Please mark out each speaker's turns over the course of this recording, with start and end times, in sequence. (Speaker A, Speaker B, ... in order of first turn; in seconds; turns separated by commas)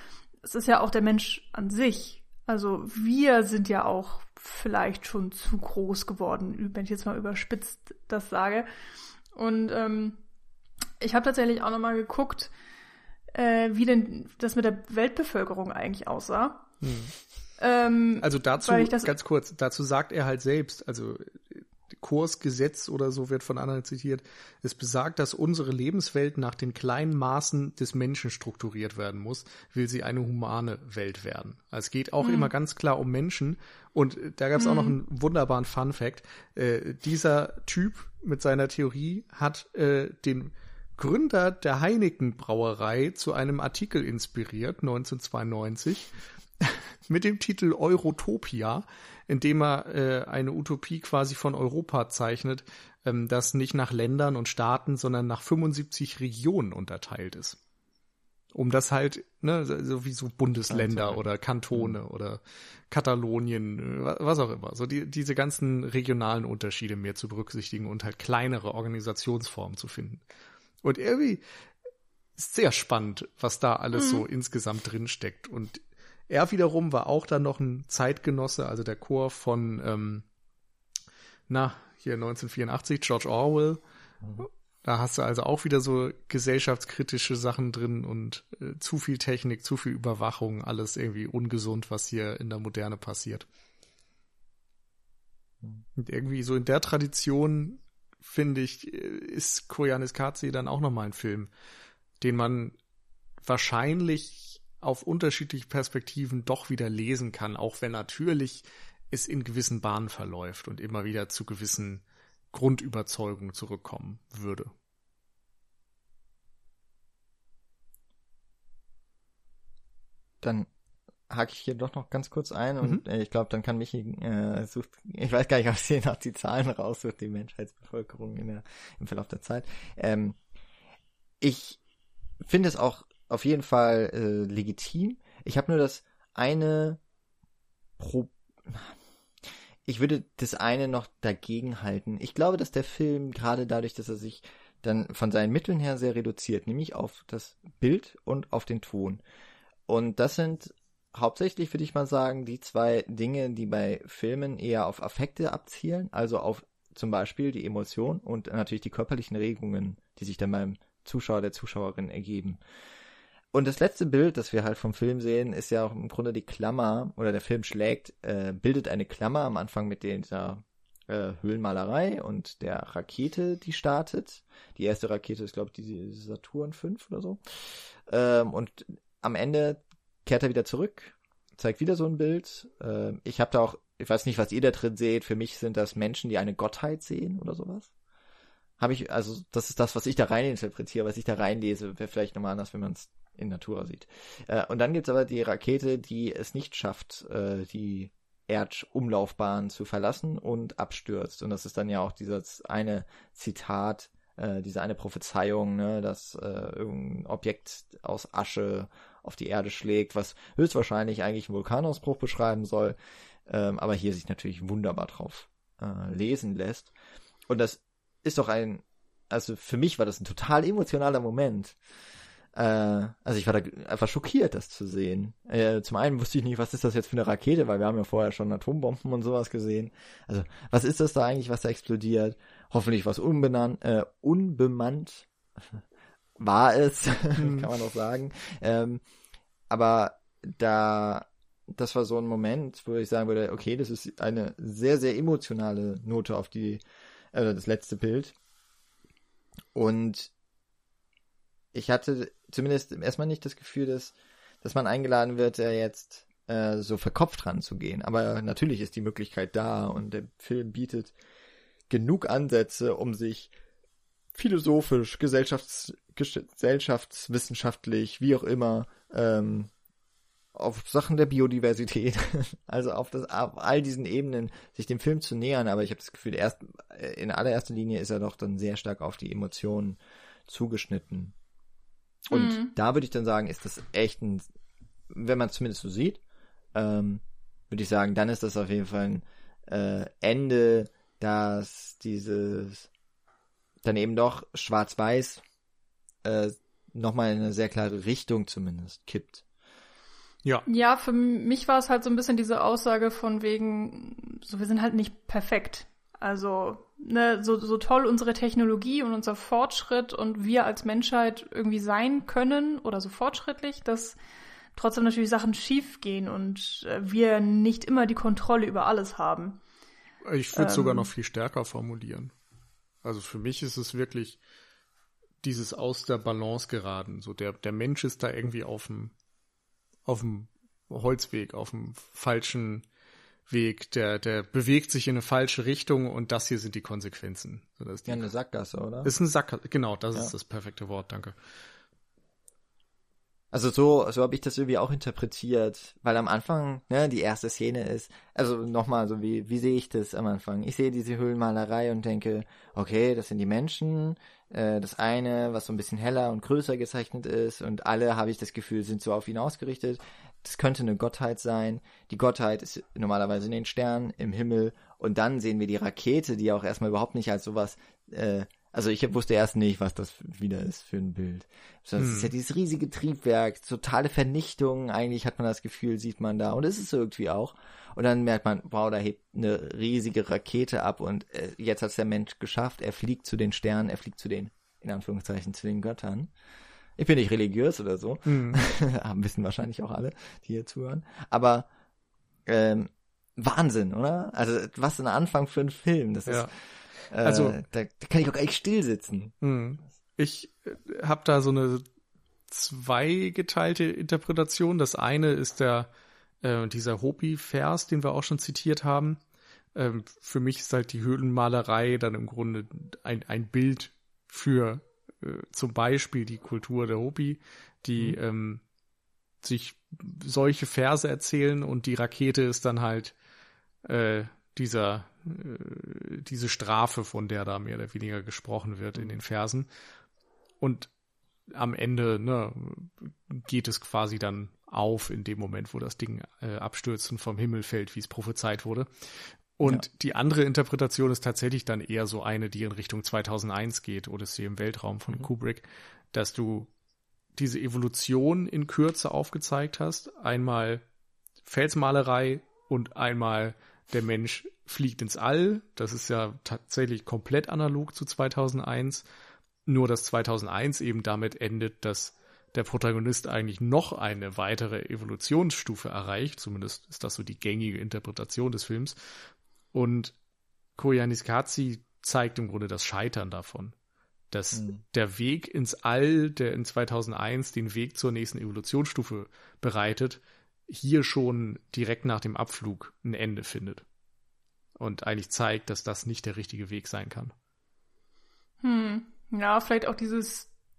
Speaker A: 0.4-8.7, Speaker A: 9.3-10.2, Speaker A: 11.0-12.5, Speaker A: 13.3-16.6, Speaker B: 16.8-17.1, Speaker A: 17.6-19.2, Speaker B: 18.2-57.6, Speaker A: 32.2-32.5, Speaker A: 34.6-35.0, Speaker B: 58.5-70.2, Speaker C: 60.7-61.2, Speaker C: 61.7-62.0, Speaker B: 70.8-71.4, Speaker B: 72.4-80.3, Speaker A: 74.0-74.2, Speaker B: 81.5-83.8, Speaker B: 84.4-93.5, Speaker B: 96.0-101.5, Speaker B: 102.2-102.8, Speaker B: 103.4-112.0, Speaker B: 112.5-114.7, Speaker C: 120.4-120.7, Speaker C: 121.3-130.4, Speaker C: 131.4-131.8, Speaker C: 132.4-137.0, Speaker C: 138.0-138.9, Speaker C: 139.9-149.2, Speaker C: 149.9-162.6, Speaker C: 163.5-187.9, Speaker C: 188.8-216.9, Speaker C: 217.5-221.8, Speaker C: 222.6-235.8, Speaker C: 236.4-239.0, Speaker B: 237.4-237.7, Speaker C: 239.7-248.3, Speaker C: 249.7-250.3, Speaker C: 251.7-261.1, Speaker C: 261.9-263.5, Speaker C: 264.3-269.7, Speaker C: 270.5-281.3, Speaker C: 282.3-284.4, Speaker A: 282.3-282.7, Speaker C: 285.1-286.2, Speaker C: 286.8-292.9, Speaker C: 293.8-295.4, Speaker C: 296.2-299.4, Speaker A: 300.7-314.2, Speaker A: 314.8-319.6, Speaker B: 320.2-322.3, Speaker A: 320.5-321.1, Speaker B: 323.0-324.4, Speaker B: 325.4-329.1, Speaker B: 330.1-332.8, Speaker B: 333.5-338.2, Speaker C: 338.1-339.1, Speaker B: 339.1-341.4, Speaker C: 343.5-386.3, Speaker B: 372.0-372.3, Speaker C: 387.0-391.7, Speaker B: 388.3-388.6, Speaker C: 392.5-396.5, Speaker B: 396.3-396.5, Speaker C: 397.1-399.3, Speaker B: 397.2-397.6, Speaker B: 399.4-401.9, Speaker B: 402.5-405.9, Speaker B: 406.4-409.2, Speaker B: 409.8-418.6, Speaker B: 419.4-423.1, Speaker B: 423.8-429.7, Speaker B: 430.6-430.9, Speaker B: 431.5-439.1, Speaker B: 439.6-446.7, Speaker B: 447.4-450.8, Speaker B: 451.4-459.0, Speaker B: 459.7-469.2, Speaker B: 469.7-470.1, Speaker B: 470.8-473.7, Speaker B: 474.3-483.8, Speaker C: 474.5-474.8, Speaker B: 484.8-487.3, Speaker A: 488.6-490.5